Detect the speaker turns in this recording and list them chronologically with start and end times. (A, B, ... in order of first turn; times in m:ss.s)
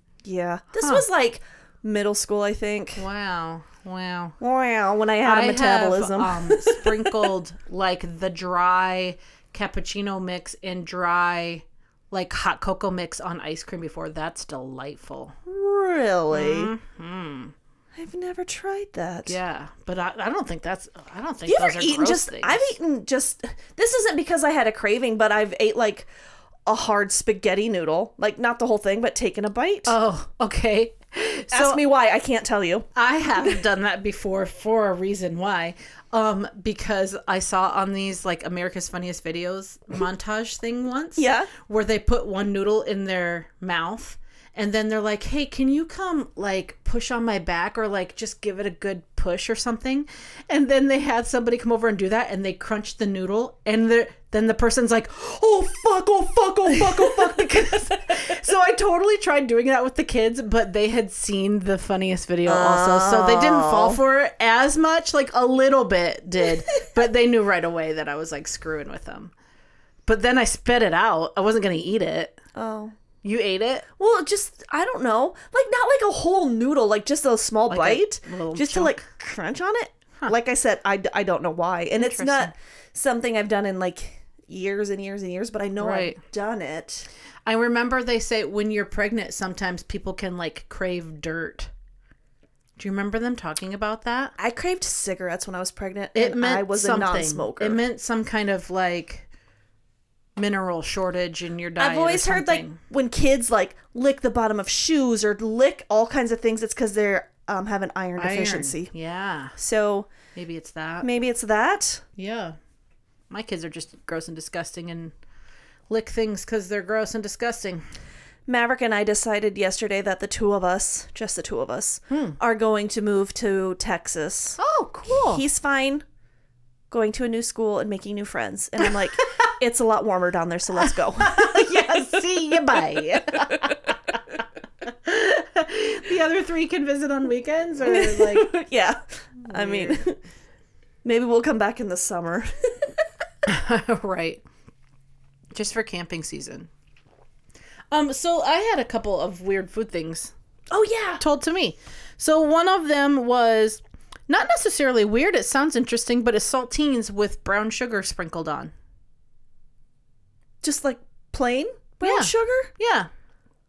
0:00.2-0:03.1 A
0:03.0-0:04.4 B
0:04.4-0:07.3 A
0:05.2-0:15.4 B
0:15.5-0:16.7 A
0:16.3-0:17.5 B
0:18.0-0:19.4 A
0:19.3-0:22.7 B
0:21.5-0:26.1 A
0:26.7-0:30.0 A
0:29.9-0:31.8 B
0:31.5-0:32.9 A
0:33.0-1:09.3 B
0:41.2-0:41.5 A
1:02.5-1:04.0 A
1:10.1-1:12.4 B
1:12.6-1:13.0 A
1:13.2-1:13.8 B
1:14.0-1:27.1 A
1:17.7-1:19.0 B
1:22.0-1:22.5 B
1:25.8-1:26.2 B
1:27.4-1:31.7 B
1:32.8-1:34.3 B
1:34.4-1:37.8 A
1:36.2-1:39.3 B
1:40.4-1:42.8 B
1:41.8-1:48.9 A
1:48.2-1:49.6 B
1:49.6-1:50.1 A
1:50.4-1:51.1 B
1:51.0-1:52.0 A
1:52.2-1:52.6 B
1:53.3-1:55.1 B
1:55.9-1:57.8 B
1:58.5-2:06.0 A
2:02.1-2:02.4 B
2:04.6-2:05.4 B
2:06.9-2:12.0 A
2:08.8-2:09.2 B
2:10.8-2:14.2 B
2:13.3-2:13.8 A
2:14.8-2:18.5 B
2:17.8-2:20.2 A
2:19.5-2:20.0 B
2:21.0-2:22.9 A
2:23.4-2:24.4 B
2:25.5-2:26.7 B
2:27.9-2:30.3 B
2:30.7-2:31.2 A
2:31.2-2:38.7 B
2:40.6-2:42.7 A
2:42.0-2:43.1 B